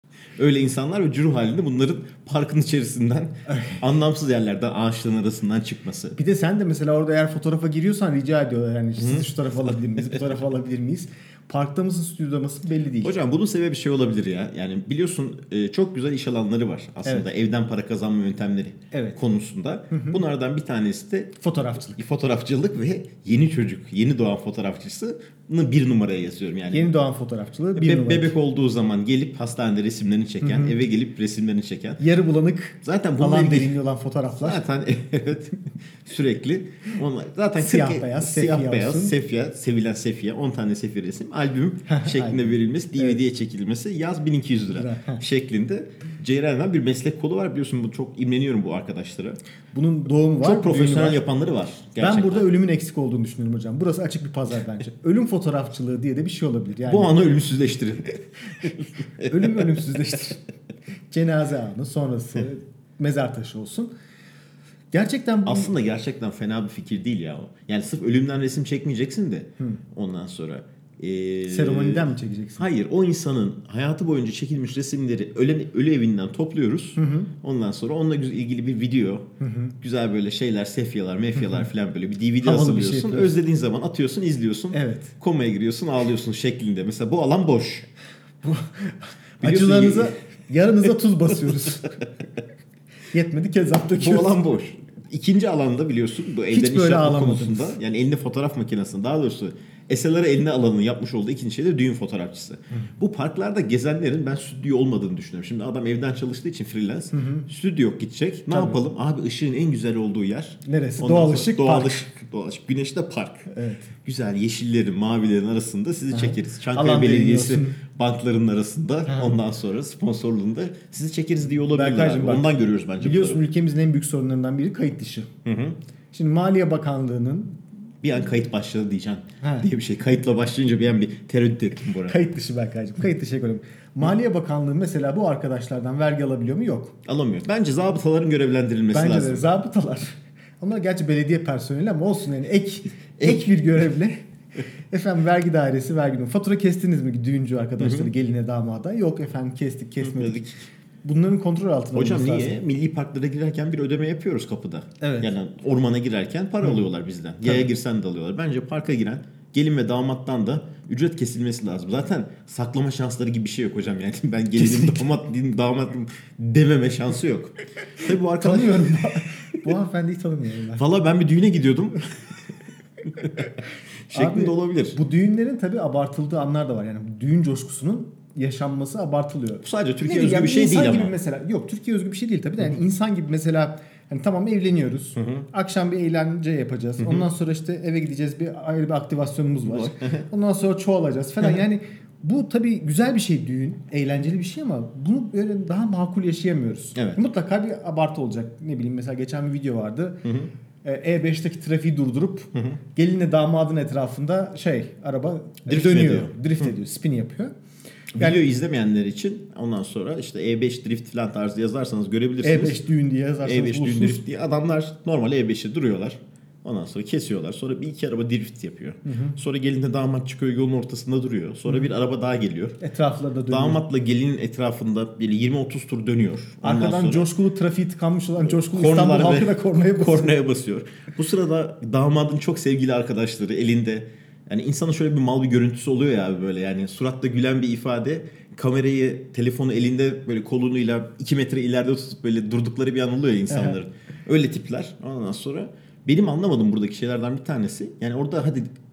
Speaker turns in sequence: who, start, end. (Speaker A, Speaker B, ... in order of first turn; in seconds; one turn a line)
Speaker A: 0.4-6.2
Speaker B: 3.5-3.8
Speaker B: 6.2-13.1
Speaker A: 9.0-9.5
Speaker A: 13.0-21.4
Speaker B: 18.9-19.2
Speaker B: 19.9-20.2
Speaker B: 21.4-22.0
Speaker A: 21.9-26.9
Speaker B: 26.7-28.3
Speaker A: 27.8-32.0
Speaker B: 30.4-30.8
Speaker B: 32.0-34.6
Speaker A: 32.8-33.8
Speaker A: 34.4-49.4
Speaker B: 37.6-39.2
Speaker B: 41.9-43.2
Speaker B: 44.7-45.2
Speaker B: 49.7-51.2
Speaker A: 50.4-52.5
Speaker B: 52.0-57.1
Speaker A: 56.8-58.7
Speaker B: 59.2-60.4
Speaker A: 59.4-59.7
Speaker B: 61.1-63.9
Speaker B: 64.9-65.7
Speaker A: 65.5-79.3
Speaker B: 71.5-72.7
Speaker B: 77.0-77.3
Speaker B: 79.4-79.7
Speaker A: 79.8-87.8
Speaker B: 82.4-83.3
Speaker B: 84.7-85.1
Speaker B: 88.4-92.0
Speaker A: 89.4-90.1
Speaker B: 93.1-94.4
Speaker A: 94.0-113.5
Speaker B: 96.5-97.8
Speaker B: 107.1-107.5
Speaker B: 108.5-108.8
Speaker B: 110.6-112.0
Speaker B: 113.5-113.9
Speaker A: 114.0-123.4
Speaker B: 116.1-117.8
Speaker B: 119.1-119.4
Speaker B: 121.6-125.3
Speaker A: 125.4-125.8
Speaker B: 126.1-127.6
Speaker A: 128.0-132.2
Speaker B: 129.4-129.7
Speaker B: 132.0-136.9
Speaker A: 137.1-139.5
Speaker B: 138.9-144.2
Speaker B: 144.9-150.4
Speaker A: 147.8-148.1
Speaker A: 150.0-150.6
Speaker B: 151.0-152.6
Speaker A: 151.9-169.0
Speaker B: 155.0-155.3
Speaker B: 164.6-165.1
Speaker B: 168.4-170.8
Speaker A: 170.7-172.0
Speaker A: 174.1-175.0
Speaker B: 174.1-200.2
Speaker A: 179.6-181.1
Speaker A: 185.2-185.4
Speaker A: 187.0-187.2
Speaker A: 189.6-190.2
Speaker A: 196.9-197.2
Speaker A: 200.2-200.5
Speaker B: 200.8-207.5
Speaker A: 205.7-206.7
Speaker A: 208.1-212.8
Speaker B: 208.2-208.4
Speaker B: 212.4-214.2
Speaker A: 213.4-222.8
Speaker B: 219.1-219.4
Speaker B: 222.8-223.8
Speaker A: 223.5-227.3
Speaker B: 226.6-230.3
Speaker A: 228.5-248.7